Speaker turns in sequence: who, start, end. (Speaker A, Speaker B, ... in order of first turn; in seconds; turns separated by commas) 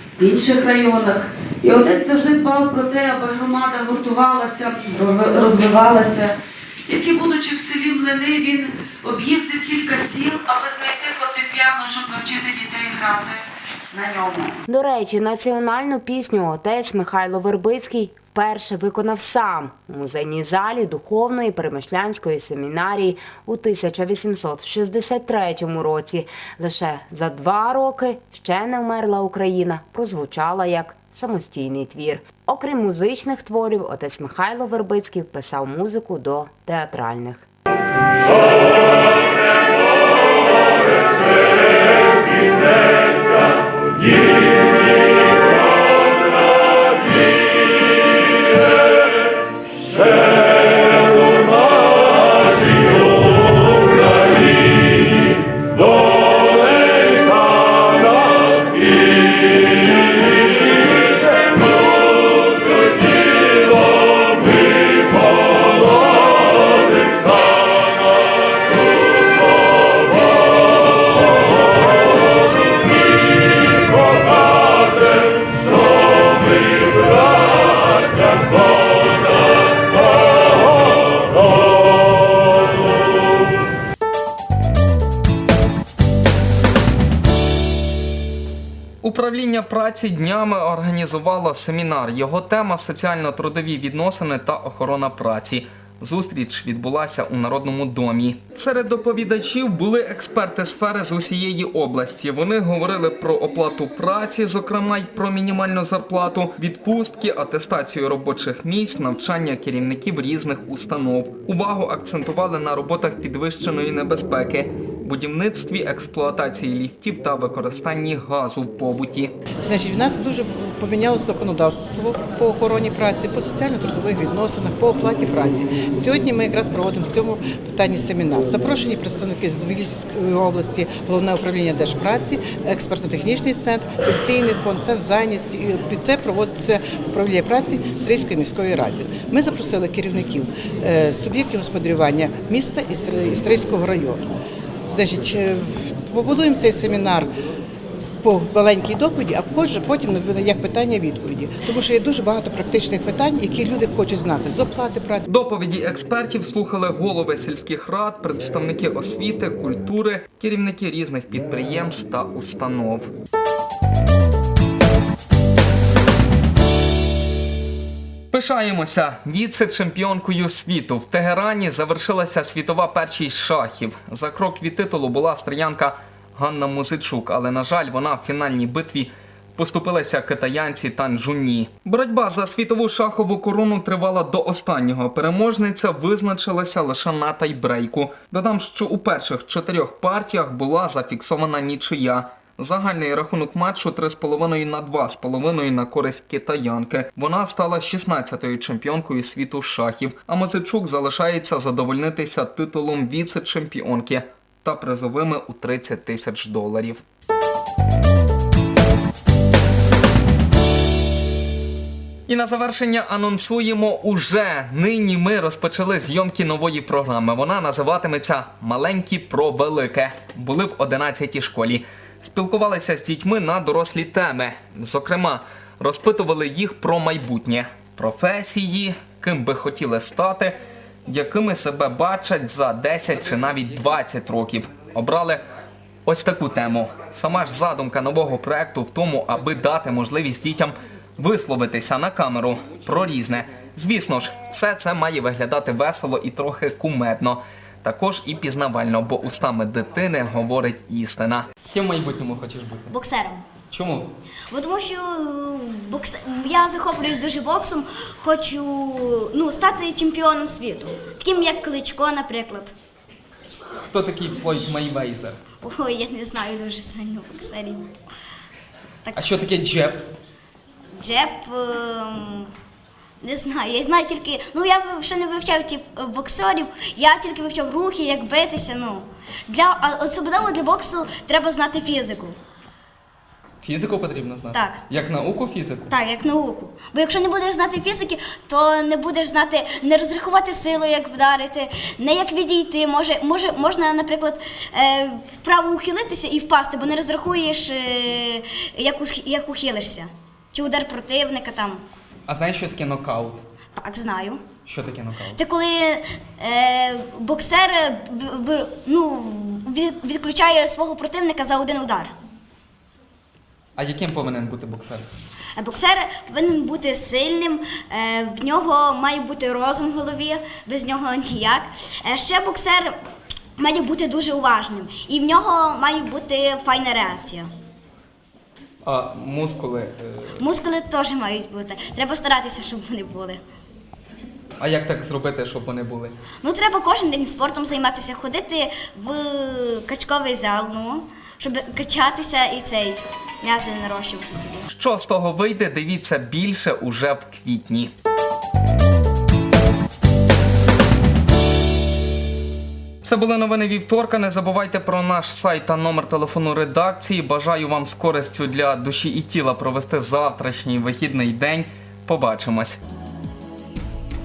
Speaker A: 0.2-6.3, Speaker A: 6.8-14.6, Speaker B: 14.7-37.5, Speaker C: 89.0-119.3, Speaker D: 119.6-144.2, Speaker D: 144.9-147.3, Speaker D: 148.2-155.3, Speaker C: 155.3-163.1, Speaker C: 168.3-207.0, Speaker C: 212.3-230.6, Speaker C: 231.1-235.4, Speaker C: 236.1-252.9, Speaker E: 252.9-253.4, Speaker C: 253.7-254.1, Speaker E: 254.5-262.7, Speaker C: 263.9-265.4, Speaker E: 265.6-267.9, Speaker E: 269.0-269.5, Speaker C: 269.1-270.1, Speaker E: 271.0-272.5, Speaker E: 273.2-282.4, Speaker C: 283.6-285.9, Speaker E: 284.5-284.8, Speaker E: 285.9-301.8, Speaker C: 302.3-303.4, Speaker E: 303.8-304.4, Speaker C: 304.7-305.4, Speaker E: 305.3-312.1, Speaker C: 313.8-315.1, Speaker E: 315.6-322.9, Speaker E: 323.6-327.5, Speaker C: 328.8-330.3, Speaker E: 330.4-333.4, Speaker C: 334.6-336.2, Speaker E: 336.4-344.7, Speaker C: 344.7-347.9, Speaker C: 353.0-362.8